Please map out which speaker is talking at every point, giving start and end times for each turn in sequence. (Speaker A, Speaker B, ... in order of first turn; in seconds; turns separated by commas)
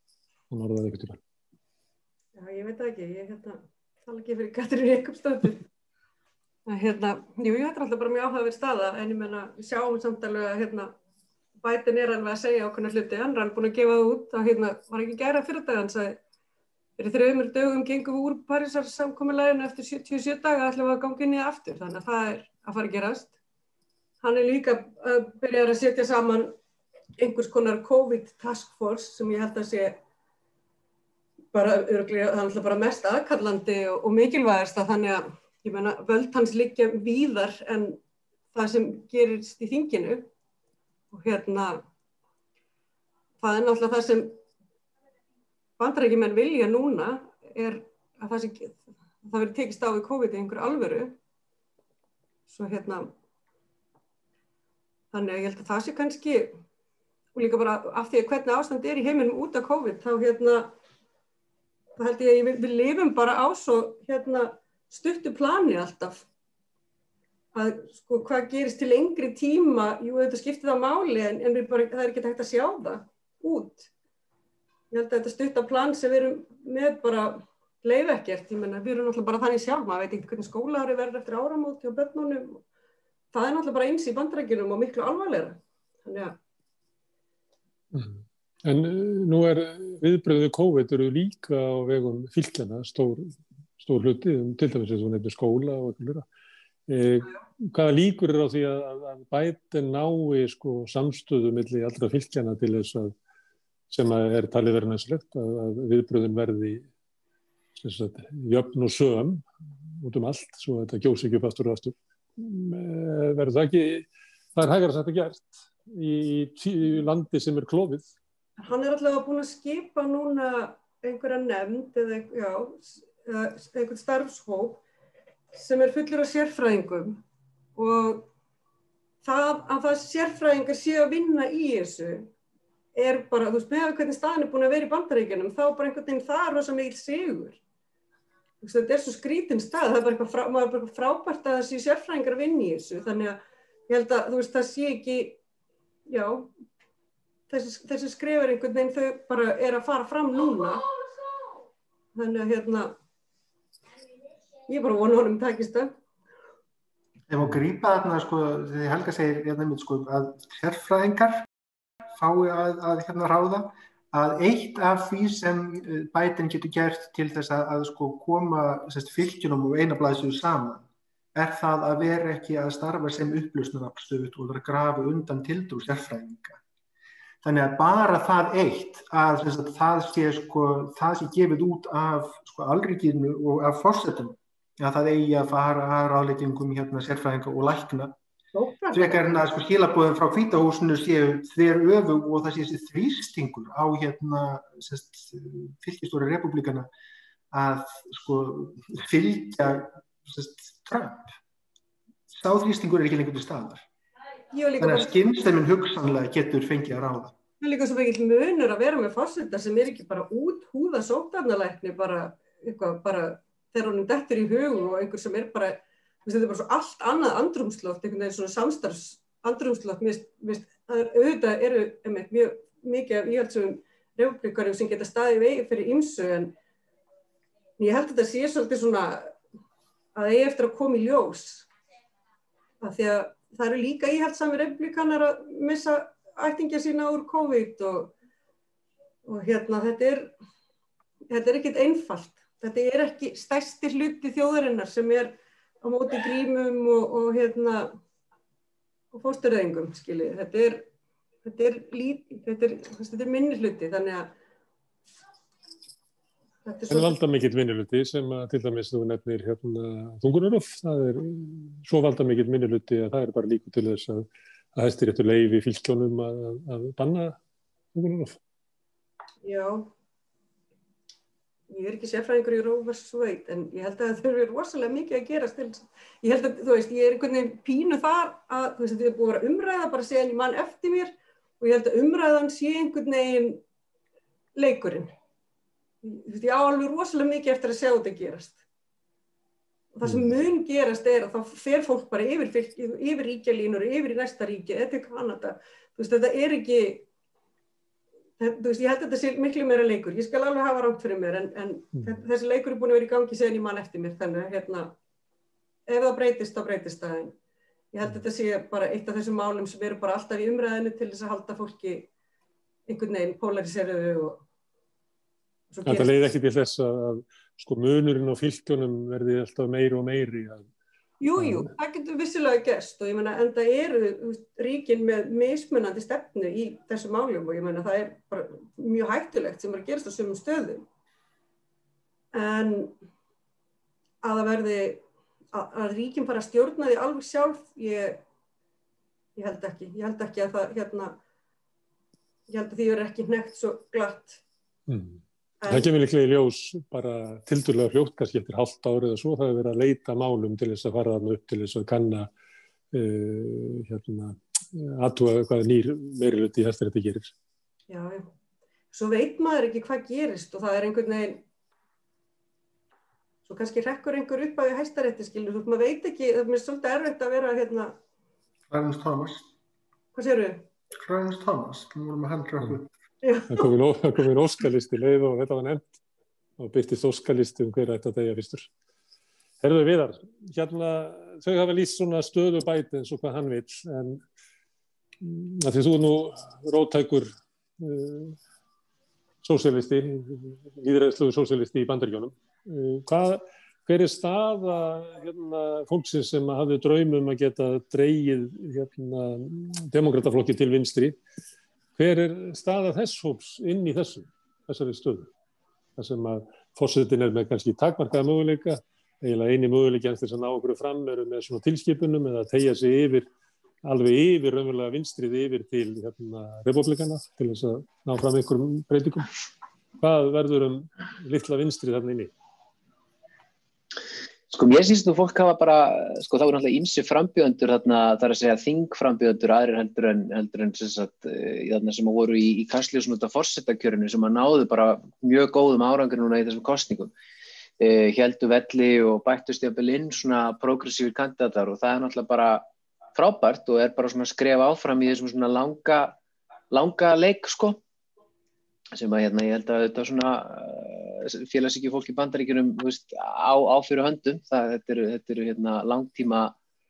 Speaker A: 0.5-1.2, Speaker B: 2.4-5.7, Speaker B: 6.7-10.9, Speaker B: 11.6-16.2, Speaker B: 17.0-23.3, Speaker B: 24.2-26.5, Speaker B: 27.2-30.0, Speaker B: 31.5-38.0, Speaker B: 38.5-40.3, Speaker B: 41.1-41.8, Speaker B: 43.4-44.4, Speaker B: 45.8-51.1, Speaker B: 52.5-53.1, Speaker B: 55.1-56.6, Speaker B: 57.3-60.7, Speaker B: 62.0-66.2, Speaker B: 67.5-73.9, Speaker B: 74.9-82.6, Speaker B: 83.3-86.4, Speaker A: 87.9-96.2, Speaker A: 96.9-103.1, Speaker A: 103.9-106.8, Speaker A: 107.8-109.5, Speaker A: 110.0-118.1, Speaker B: 118.6-124.8, Speaker B: 125.5-127.2, Speaker B: 127.8-128.2, Speaker B: 129.2-132.3, Speaker B: 132.9-137.6, Speaker B: 138.6-145.4, Speaker B: 146.1-146.5, Speaker B: 147.5-150.8, Speaker B: 152.1-152.9, Speaker B: 154.7-155.9, Speaker C: 157.3-161.5, Speaker C: 162.1-176.6, Speaker C: 177.4-188.2, Speaker B: 188.5-189.2, Speaker C: 188.9-196.9, Speaker C: 197.5-201.3, Speaker C: 202.3-203.8, Speaker B: 204.5-205.2, Speaker C: 204.8-207.3, Speaker B: 207.6-226.5, Speaker B: 227.8-229.3, Speaker B: 230.1-231.7, Speaker B: 232.8-238.1, Speaker B: 239.2-240.3, Speaker B: 241.3-248.0, Speaker B: 249.1-250.8, Speaker B: 251.4-254.3, Speaker B: 256.6-257.1, Speaker A: 256.9-267.4, Speaker A: 267.9-268.4, Speaker B: 269.4-269.9, Speaker B: 271.7-283.6, Speaker B: 284.6-285.1, Speaker B: 286.0-288.6, Speaker B: 289.9-297.1, Speaker B: 298.4-304.9, Speaker B: 305.9-307.3, Speaker B: 307.9-312.1, Speaker B: 312.9-314.4, Speaker B: 315.7-316.1, Speaker A: 315.9-320.7, Speaker B: 321.2-330.8, Speaker A: 321.4-321.7, Speaker B: 332.3-332.9, Speaker B: 334.2-338.2, Speaker B: 339.4-341.1, Speaker B: 342.5-344.4, Speaker A: 344.9-352.3, Speaker B: 345.6-345.9, Speaker A: 352.9-357.3, Speaker B: 357.9-358.3, Speaker B: 358.9-361.4, Speaker B: 363.4-367.9, Speaker C: 368.7-369.4, Speaker B: 370.1-370.6, Speaker C: 370.9-372.9, Speaker B: 373.2-373.7, Speaker A: 373.5-376.0, Speaker A: 376.6-378.7, Speaker A: 379.6-384.2, Speaker A: 385.2-388.4, Speaker A: 389.4-401.1, Speaker A: 401.9-405.3, Speaker A: 406.0-413.3, Speaker A: 413.8-419.3, Speaker A: 420.0-422.3, Speaker D: 424.5-437.1, Speaker D: 437.8-446.2, Speaker D: 446.7-447.8, Speaker D: 448.9-456.5